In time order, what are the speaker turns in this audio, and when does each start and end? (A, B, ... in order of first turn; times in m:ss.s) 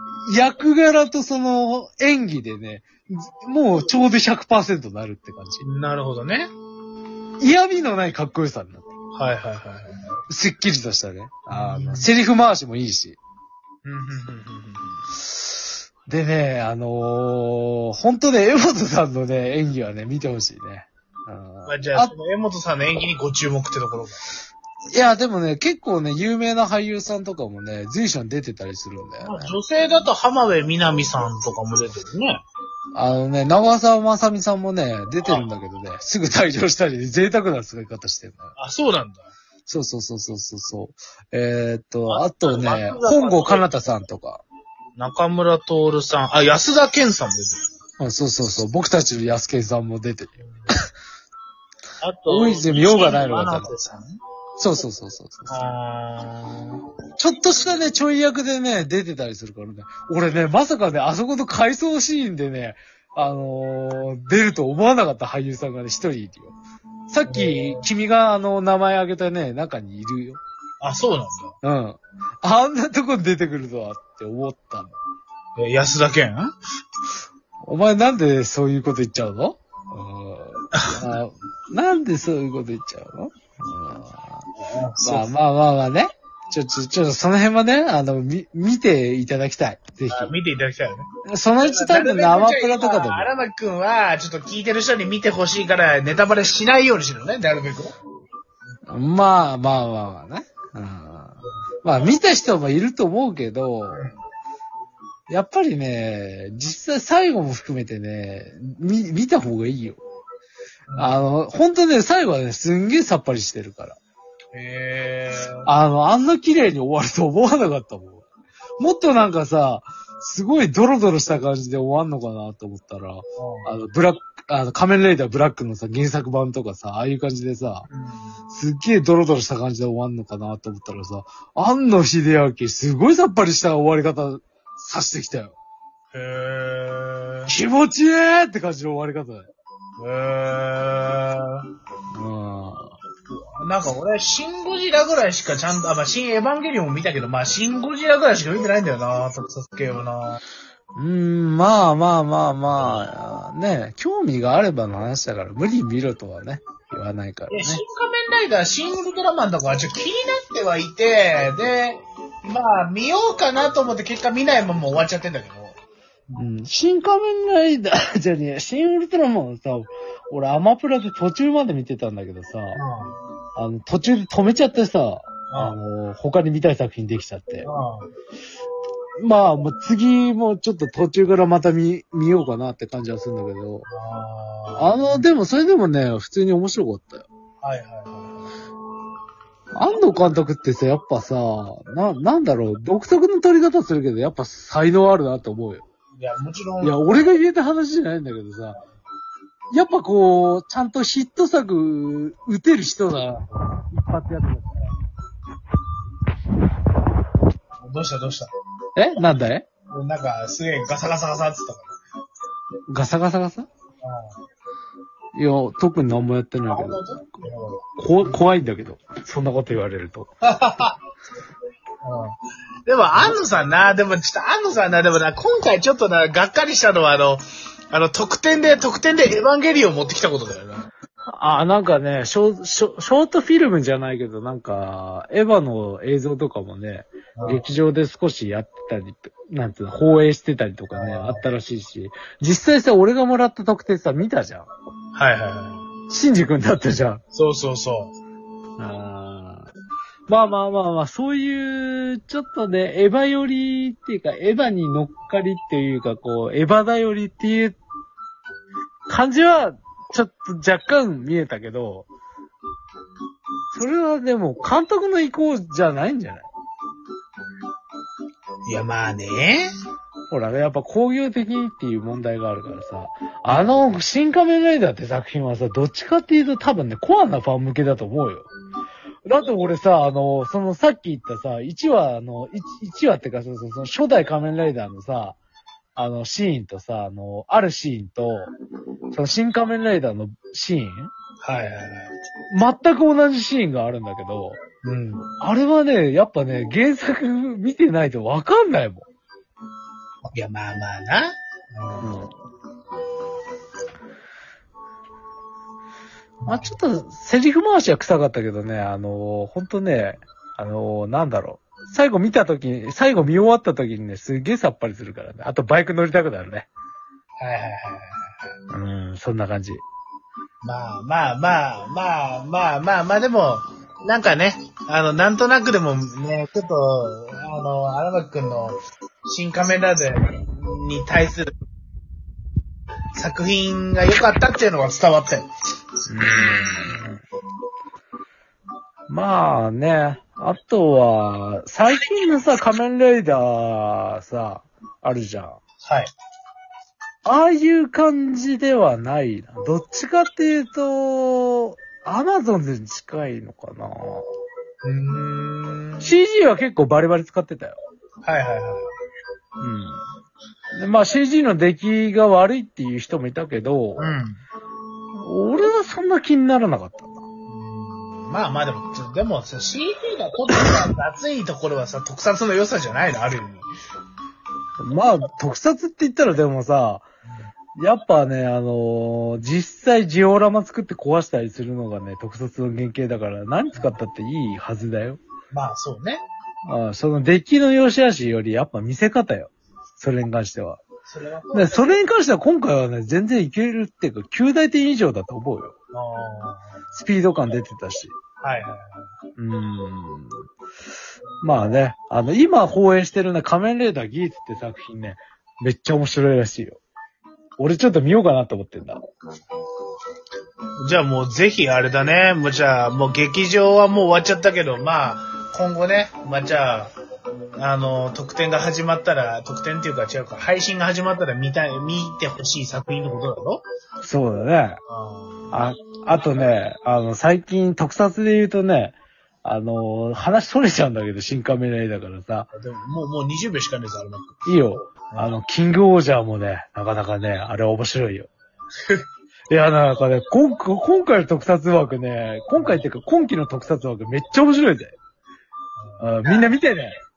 0:00.2-0:05.6 A
0:05.6-0:06.5 B
0:07.4-0:08.9 A
0:09.2-0:10.0 B
0:10.3-0:13.2 A
0:11.5-0:12.1 B
0:13.8-0:15.0 B
0:16.1-0:22.1 A
0:21.7-0:24.3 B
0:24.9-0:29.6 A
0:29.2-0:32.4 B
0:33.0-0:38.5 A
0:35.2-0:35.5 B
0:38.6-0:39.3 B
0:39.7-0:44.4 A
0:42.1-0:43.7 B
0:45.0-0:47.6 B
0:48.0-0:50.8 A
0:52.0-0:54.2 B
0:52.3-0:53.7 A
0:54.6-0:55.6 A
0:55.5-0:56.8 B
0:57.2-1:06.6 A
1:07.1-1:10.4 A
1:07.3-1:07.9 B
1:10.8-1:11.5 B
1:11.6-1:15.0 A
1:15.6-1:16.5 B
1:17.6-1:24.4 A
1:20.7-1:21.0 B
1:24.6-1:25.3 B
1:25.0-1:30.4 A
1:30.1-1:31.1 B
1:31.3-1:33.3 A
1:31.6-1:37.9 B
1:38.9-1:44.1 A
1:45.3-1:50.0 A
1:50.9-1:51.2 B
1:51.0-1:54.0 A
1:54.6-1:55.7 B
1:55.6-1:58.2 A
1:58.8-2:07.9 A
2:03.4-2:03.7 B
2:07.9-2:08.4 B
2:08.5-2:15.6 A
2:16.1-2:17.5 B
2:17.5-2:19.5 A
2:20.0-2:21.7 B
2:22.1-2:23.0 A
2:23.3-2:30.4 B
2:31.0-2:37.8 A
2:32.7-2:33.1 B
2:37.5-2:45.8 B
2:46.4-2:52.8 A
2:52.8-2:53.2 B
2:53.6-2:57.7 A
2:55.5-2:55.8 B
2:57.6-2:58.1 B
2:59.2-3:03.9 A
3:03.9-3:05.3 B
3:04.8-3:07.3 A
3:07.6-3:08.5 B
3:09.7-3:15.8 A
3:16.2-3:17.3 B
3:16.8-3:18.8 A
3:19.7-3:24.8 A
3:27.8-3:28.5 B
3:29.0-3:29.7 A
3:29.9-3:31.9 B
3:32.9-3:33.7 A
3:34.0-3:34.3 B
3:35.3-3:37.2 A
3:36.7-3:38.4 B
3:38.0-3:40.3 A
3:40.5-3:41.0 B
3:42.0-3:50.9 B
3:51.3-4:04.7 A
3:57.4-3:57.6 B
4:00.9-4:01.5 B
4:05.2-4:05.9 B
4:06.1-4:07.2 A
4:07.3-4:08.1 B
4:08.8-4:09.7 A
4:10.3-4:17.8 A
4:19.1-4:22.1 A
4:23.7-4:26.5 A
4:28.7-4:29.7 B
4:30.3-4:38.5 A
4:33.5-4:33.8 B
4:39.2-4:45.4 A
4:46.0-4:48.5 A
4:49.1-4:51.1 A
4:51.4-4:52.1 B
4:52.5-4:54.6 A
4:54.8-4:55.3 B
4:55.4-4:59.1 A
5:00.3-5:02.1 B
5:02.0-5:02.3 A
5:06.4-5:06.7 B
5:06.5-5:16.7 A
5:17.4-5:18.1 B
5:18.7-5:19.8 A
5:20.6-5:31.5 B
5:33.2-5:35.5 B
5:36.1-5:37.2 A
5:36.4-5:36.8 B
5:39.1-5:45.6 A
5:45.8-5:46.1 B
5:47.2-5:54.3 A
5:54.8-5:56.1 B
5:56.0-5:57.8 A
5:58.2-5:58.9 B
5:59.6-6:00.0 A
6:00.8-6:04.2 A
6:04.0-6:04.4 B
6:05.1-6:07.2 A
6:07.5-6:13.7 B
6:14.8-6:17.1 A
6:17.8-6:25.2 A
6:25.5-6:26.2 B
6:26.6-6:30.8 A
6:31.1-6:32.0 B
6:31.5-6:35.7 A
6:35.9-6:36.7 B
6:36.9-6:38.2 A
6:38.4-6:38.8 B
6:39.4-6:40.4 A
6:41.4-6:46.8 A
6:47.6-6:49.0 A
6:50.8-6:56.9 B
6:57.6-7:03.6 B
7:04.0-7:04.8 A
7:04.9-7:05.5 B
7:05.5-7:12.5 A
7:12.5-7:15.4 B
7:14.5-7:18.3 A
7:19.5-7:25.0 A
7:22.6-7:22.8 B
7:25.8-7:26.6 B
7:26.0-7:27.0 A